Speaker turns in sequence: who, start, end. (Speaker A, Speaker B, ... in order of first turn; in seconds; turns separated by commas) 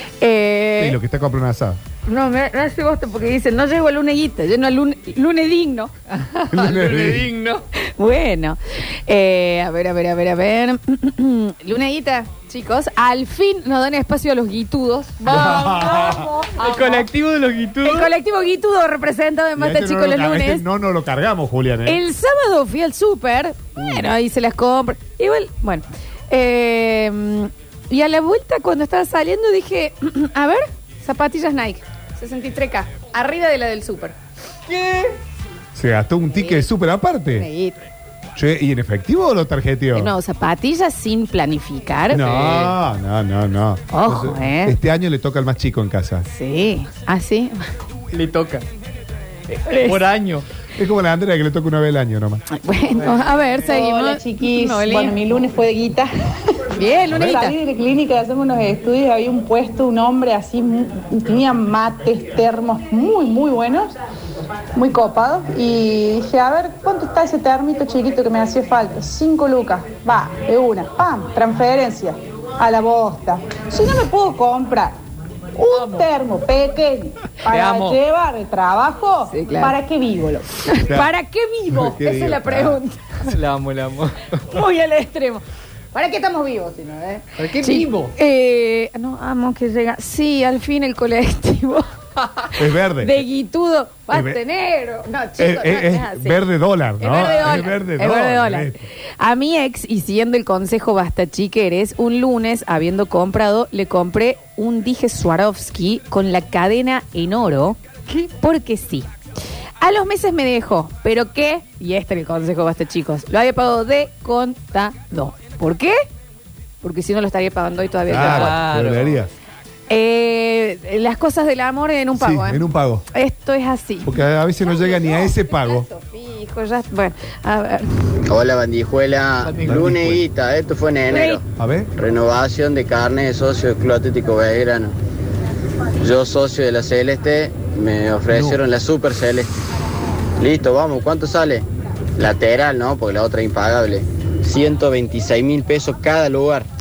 Speaker A: 0.2-1.0, Speaker B: 0.8-1.8, Speaker A: 2.0-5.9, Speaker C: 6.1-7.6, Speaker B: 6.5-7.3, Speaker A: 7.8-17.1, Speaker B: 15.3-16.3, Speaker C: 15.3-18.1, Speaker A: 17.8-20.6, Speaker B: 19.6-22.0, Speaker A: 21.9-34.1, Speaker B: 23.8-24.1, Speaker C: 34.7-35.1, Speaker B: 35.7-37.5, Speaker A: 36.3-36.7, Speaker A: 37.3-37.8, Speaker B: 38.4-40.1, Speaker A: 39.9-42.2, Speaker B: 42.1-46.3, Speaker C: 42.2-42.8, Speaker A: 43.9-44.8, Speaker A: 46.3-47.6, Speaker C: 48.1-48.6, Speaker C: 49.5-50.4, Speaker A: 49.7-50.0, Speaker B: 50.8-52.4, Speaker A: 52.5-55.1, Speaker D: 53.6-56.1, Speaker A: 56.8-57.5, Speaker B: 57.1-57.4, Speaker D: 57.1-63.9, Speaker D: 64.7-75.0, Speaker D: 75.5-80.5, Speaker C: 77.5-78.0, Speaker A: 79.3-79.8, Speaker A: 80.6-83.3, Speaker B: 80.7-81.1, Speaker B: 81.7-82.8, Speaker C: 83.2-84.5, Speaker A: 84.5-91.8, Speaker C: 87.4-88.1, Speaker A: 92.5-96.4, Speaker B: 92.5-93.2, Speaker B: 94.1-94.4, Speaker B: 95.4-98.8, Speaker A: 97.0-109.1, Speaker A: 109.8-116.0, Speaker A: 116.8-118.6, Speaker B: 118.1-119.3, Speaker C: 118.1-119.2, Speaker A: 119.9-127.9, Speaker B: 122.2-123.0, Speaker B: 124.0-125.9, Speaker E: 128.3-131.4, Speaker C: 129.4-129.9, Speaker B: 129.6-130.2, Speaker A: 131.1-131.4, Speaker B: 131.6-131.9, Speaker E: 131.9-134.9, Speaker E: 136.0-139.5, Speaker B: 138.3-138.6, Speaker E: 140.4-141.6, Speaker E: 142.2-146.7